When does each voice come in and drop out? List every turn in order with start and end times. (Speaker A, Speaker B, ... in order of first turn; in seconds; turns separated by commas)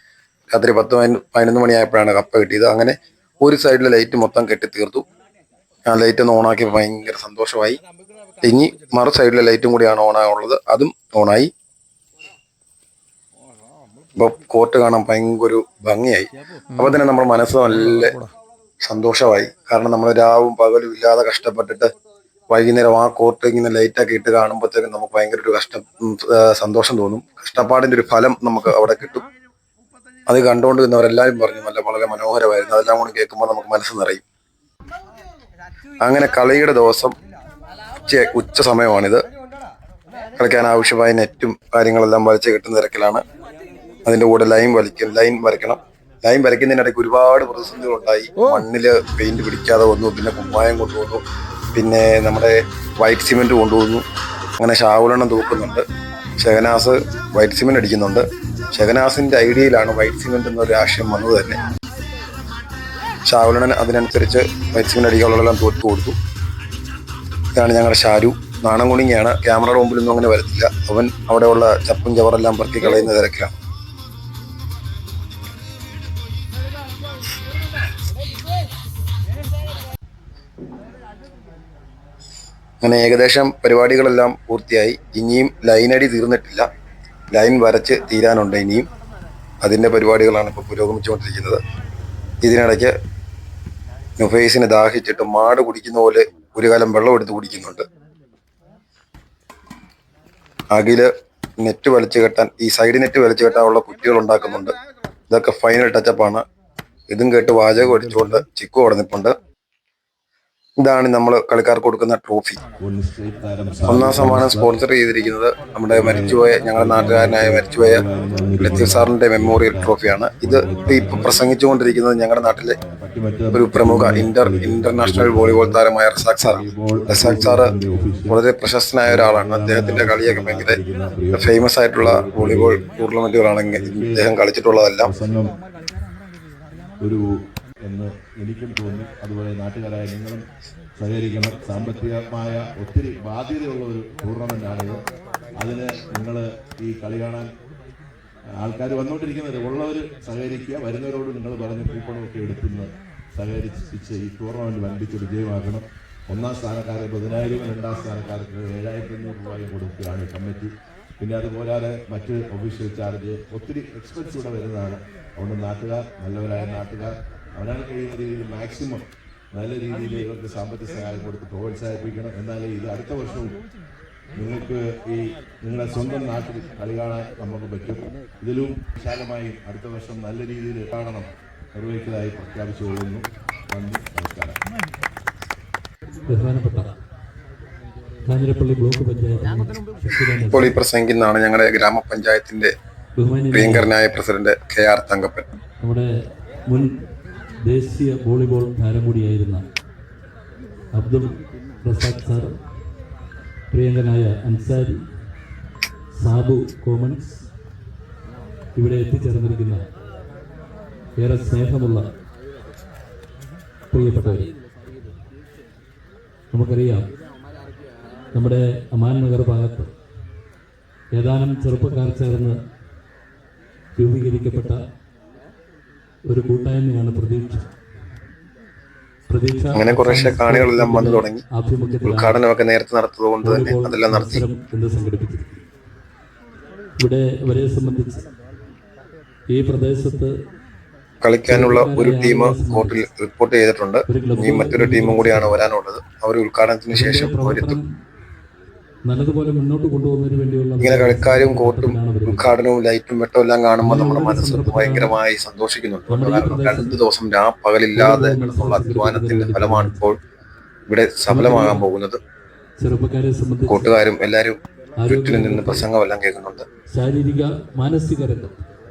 Speaker A: 0.5-5.0, Speaker A: 5.9-7.8, Speaker A: 8.4-11.5, Speaker A: 14.2-18.2, Speaker A: 18.8-21.9, Speaker A: 22.5-29.2, Speaker A: 30.3-34.2, Speaker A: 36.0-37.1, Speaker A: 38.1-39.2, Speaker A: 40.4-43.2, Speaker A: 44.0-51.2, Speaker A: 51.7-54.0, Speaker A: 54.6-55.8, Speaker A: 56.4-61.5, Speaker A: 63.3-66.2, Speaker A: 67.5-73.5, Speaker A: 82.8-86.7, Speaker A: 87.3-88.9, Speaker A: 89.6-91.6, Speaker A: 92.4-92.9, Speaker A: 94.2-97.8, Speaker A: 100.7-101.1, Speaker A: 101.6-104.7, Speaker A: 105.3-106.4, Speaker A: 107.1-109.3, Speaker A: 110.8-112.6, Speaker B: 112.8-114.7, Speaker A: 113.9-118.0, Speaker B: 115.9-121.3, Speaker A: 118.6-122.7, Speaker B: 122.9-125.8, Speaker A: 123.5-127.7, Speaker B: 126.4-128.4, Speaker A: 128.3-130.8, Speaker B: 129.1-132.8, Speaker A: 131.3-135.1, Speaker B: 133.7-134.3, Speaker B: 135.0-135.6, Speaker B: 137.8-145.0, Speaker B: 145.6-147.5, Speaker B: 148.6-173.6, Speaker B: 174.3-184.6, Speaker C: 186.3-186.9, Speaker C: 188.2-190.8, Speaker A: 190.5-192.7, Speaker C: 193.2-193.9, Speaker A: 193.5-195.4, Speaker C: 195.8-196.1, Speaker C: 196.7-196.9, Speaker C: 197.7-199.6, Speaker C: 200.9-202.5, Speaker C: 203.7-205.0, Speaker C: 206.2-207.4, Speaker C: 208.8-209.8, Speaker C: 211.2-212.1, Speaker C: 213.9-214.5, Speaker C: 216.5-217.1, Speaker C: 218.3-219.9, Speaker C: 221.1-222.5, Speaker C: 224.0-224.8, Speaker C: 226.3-227.7, Speaker C: 229.3-232.4, Speaker A: 229.7-231.4, Speaker A: 232.0-234.4, Speaker C: 233.4-235.5, Speaker C: 237.0-238.2, Speaker C: 239.5-240.3, Speaker A: 241.2-247.8, Speaker C: 241.5-243.0, Speaker C: 244.1-245.6, Speaker C: 246.9-247.8, Speaker C: 249.1-252.5, Speaker A: 250.8-260.2, Speaker C: 253.8-255.1, Speaker C: 256.1-257.0, Speaker C: 257.9-260.0, Speaker A: 260.9-262.2, Speaker C: 261.3-261.8, Speaker C: 262.8-263.9, Speaker A: 263.6-266.6, Speaker C: 265.0-265.9, Speaker C: 266.9-268.6